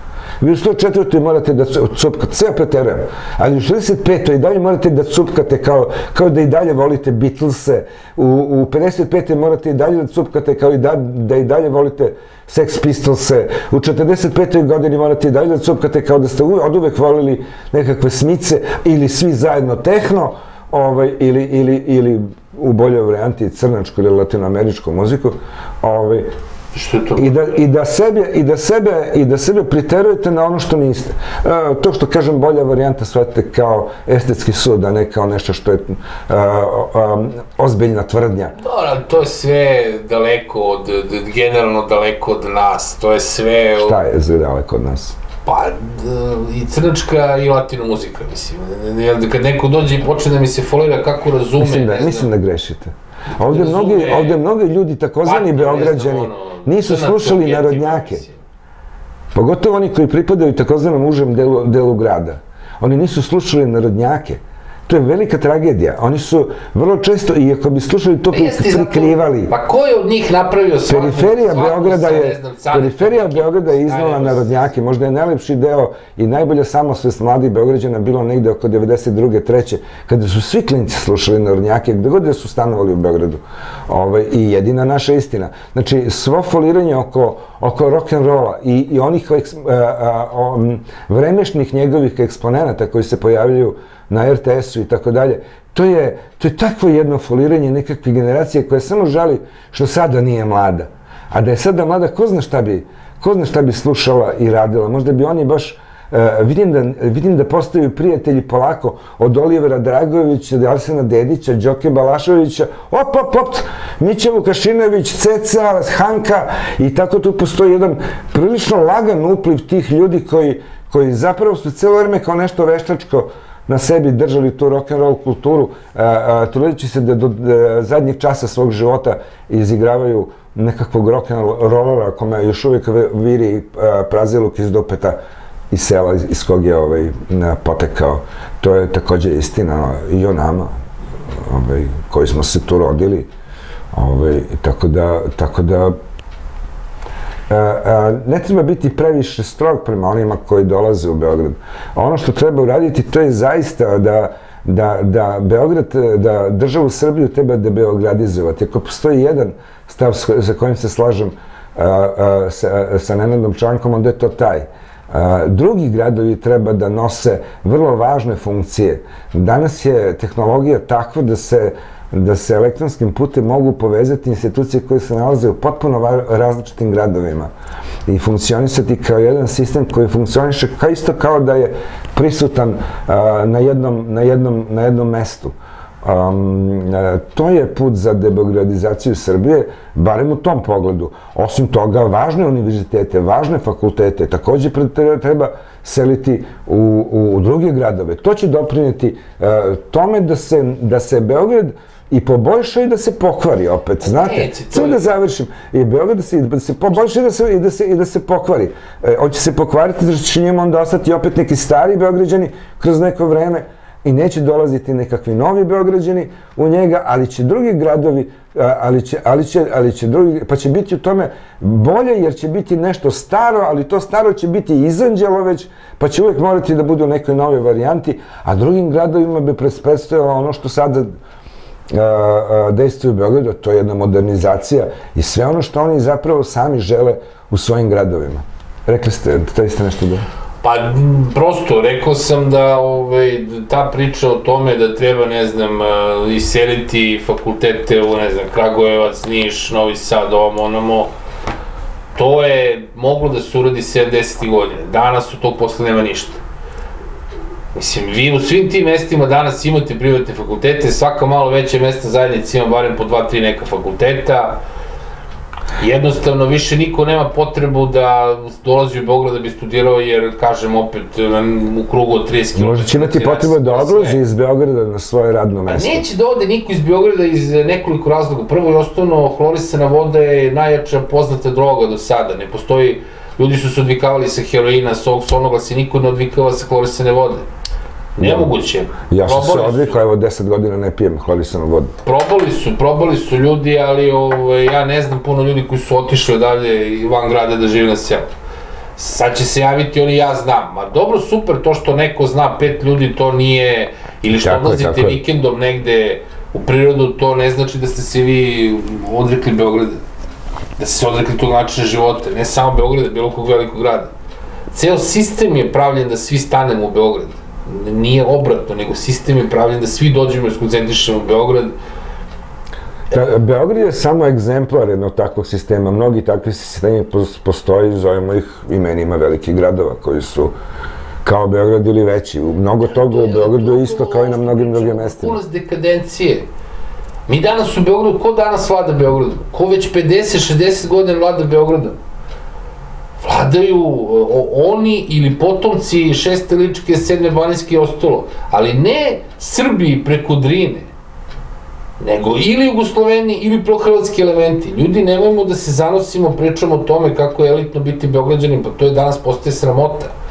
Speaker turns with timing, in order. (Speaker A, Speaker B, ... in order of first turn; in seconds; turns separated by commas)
Speaker A: 0.4-26.3, Speaker B: 26.7-27.6, Speaker A: 27.1-38.5, Speaker B: 38.6-44.0, Speaker A: 43.8-45.1, Speaker B: 45.4-52.3, Speaker A: 51.6-58.2, Speaker B: 53.4-54.4, Speaker B: 55.2-58.4, Speaker A: 59.3-69.5, Speaker B: 68.3-74.6, Speaker A: 70.9-135.2, Speaker A: 135.7-140.7, Speaker A: 141.3-143.3, Speaker A: 143.9-145.9, Speaker A: 147.5-177.5, Speaker A: 178.1-231.1, Speaker B: 204.0-205.1, Speaker A: 231.9-240.2, Speaker B: 240.6-251.1, Speaker B: 252.1-256.4, Speaker B: 257.7-264.6, Speaker B: 265.8-274.2, Speaker A: 272.5-276.0, Speaker B: 275.7-287.4, Speaker B: 288.2-290.0, Speaker A: 288.2-288.5, Speaker A: 289.1-291.9, Speaker B: 292.0-298.3, Speaker B: 299.0-310.0, Speaker A: 304.3-305.2, Speaker B: 310.8-314.1, Speaker B: 314.7-321.7, Speaker A: 323.1-330.5, Speaker A: 331.2-335.4, Speaker B: 332.9-336.4, Speaker B: 337.3-342.0, Speaker B: 343.2-350.9, Speaker B: 352.0-360.1